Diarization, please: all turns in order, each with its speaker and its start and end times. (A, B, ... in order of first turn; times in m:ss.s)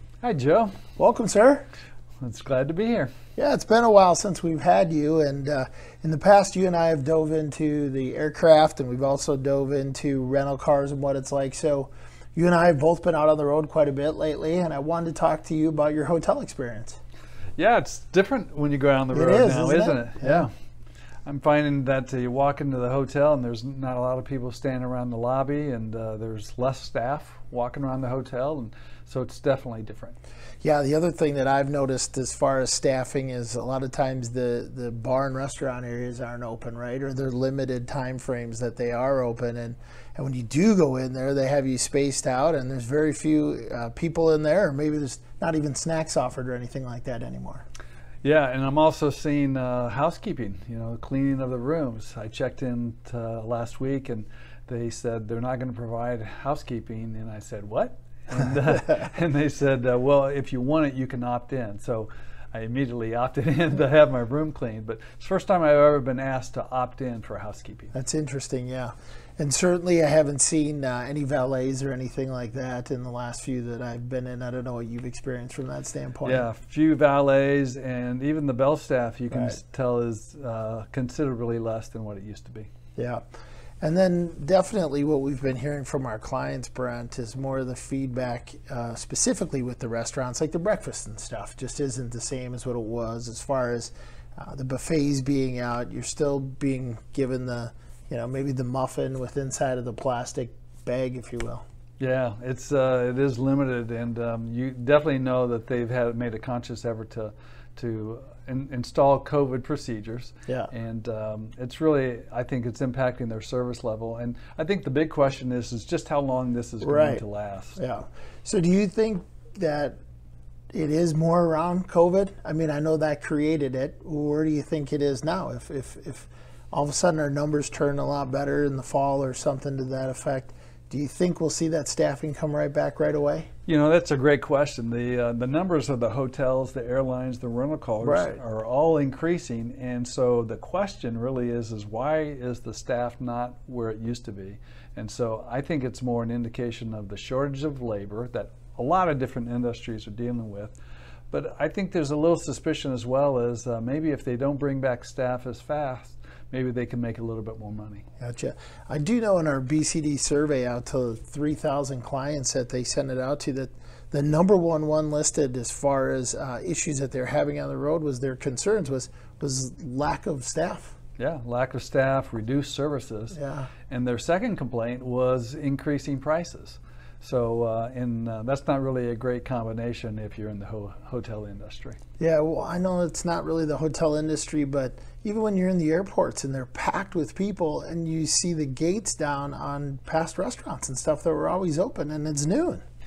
0:00.2-0:00.8 A
0:01.0-0:01.7 B
0:02.2-0:03.1 A
0:03.4-0:17.0 B
0:17.6-0:20.5 A
0:19.1-0:20.5 B
0:21.2-0:30.2 A
0:30.6-0:47.6 B
0:48.2-1:07.9 A
1:07.9-1:16.4 B
1:16.2-1:22.7 A
1:23.0-1:23.2 B
1:23.8-1:41.6 B
1:42.0-1:57.8 A
1:56.8-1:57.2 B
1:57.8-2:00.0 B
2:00.7-2:13.5 B
2:13.7-2:30.8 A
2:18.0-2:18.4 B
2:31.3-2:38.0 A
2:38.2-2:51.0 B
2:51.2-2:53.4 A
2:53.3-2:53.7 B
2:53.9-3:02.0 A
3:02.2-3:12.8 B